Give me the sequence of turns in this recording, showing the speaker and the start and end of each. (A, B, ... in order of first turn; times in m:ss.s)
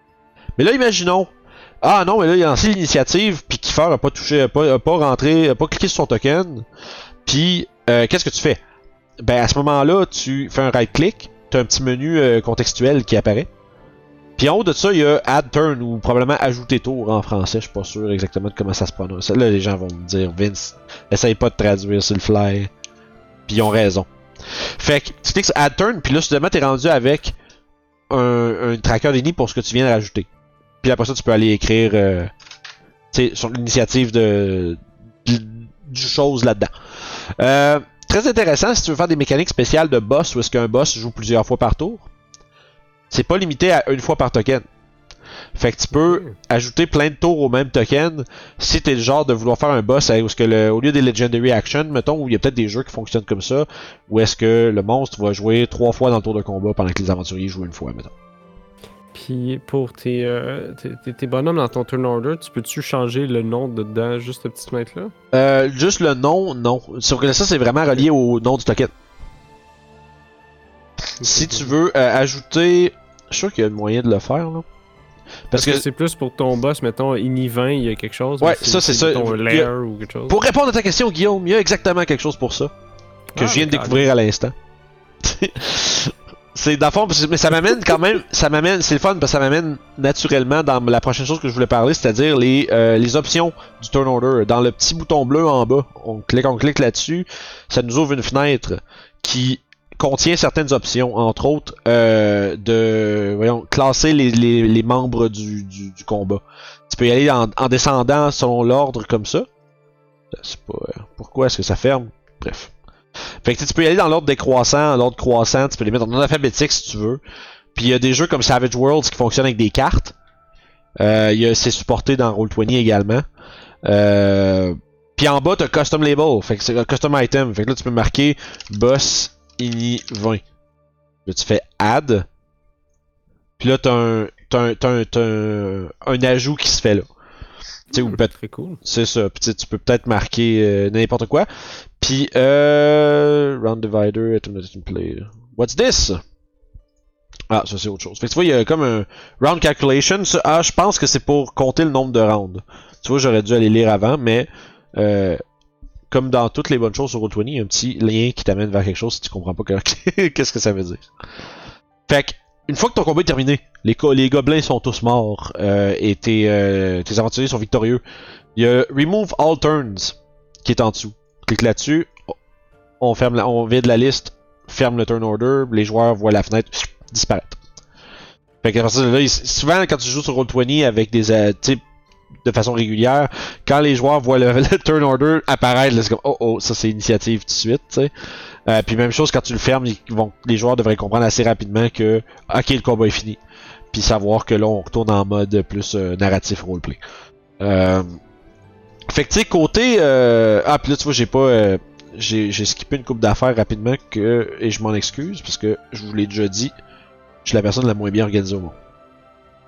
0:00.6-0:06.6 A
0:07.2-0:08.6 A
0:09.2-0:13.5 A
0:14.4-0:22.7 A
0:23.5-0:24.1 A
0:24.8-0:27.3 A
0:28.1-0:30.3 A
0:30.8-0:32.3 A
0:33.1-0:36.7 A
0:37.4-0:42.1 A
0:43.1-0:44.6 A
0:45.5-0:58.1 A
0:46.0-0:46.3 B
0:59.1-1:05.1 B
1:05.3-1:08.9 A
1:11.2-1:14.6 A
1:11.2-1:11.7 B
1:15.5-1:15.8 A
1:15.5-1:20.4 B
1:18.4-1:19.7 A
1:20.3-1:22.7 A
1:23.3-1:24.0 B
1:23.4-1:24.5 A
1:25.2-1:49.4 A
1:50.3-1:52.7 A
1:53.4-1:57.2 A
1:57.7-2:00.1 A
2:01.0-2:03.2 A
2:03.8-2:10.4 A
2:11.2-2:12.2 A
2:13.6-2:17.0 A
2:17.9-2:21.5 A
2:18.0-2:18.8 B
2:22.0-2:26.2 A
2:27.5-2:35.4 A
2:36.1-2:41.0 A
2:42.1-2:48.0 A
2:48.6-2:52.1 A
2:53.0-2:57.6 A
2:58.6-3:01.8 A
3:02.4-3:08.1 A
3:08.7-3:13.4 A
3:13.9-3:17.0 A
3:17.6-3:18.2 A
3:19.1-3:26.7 A
3:27.4-3:28.8 A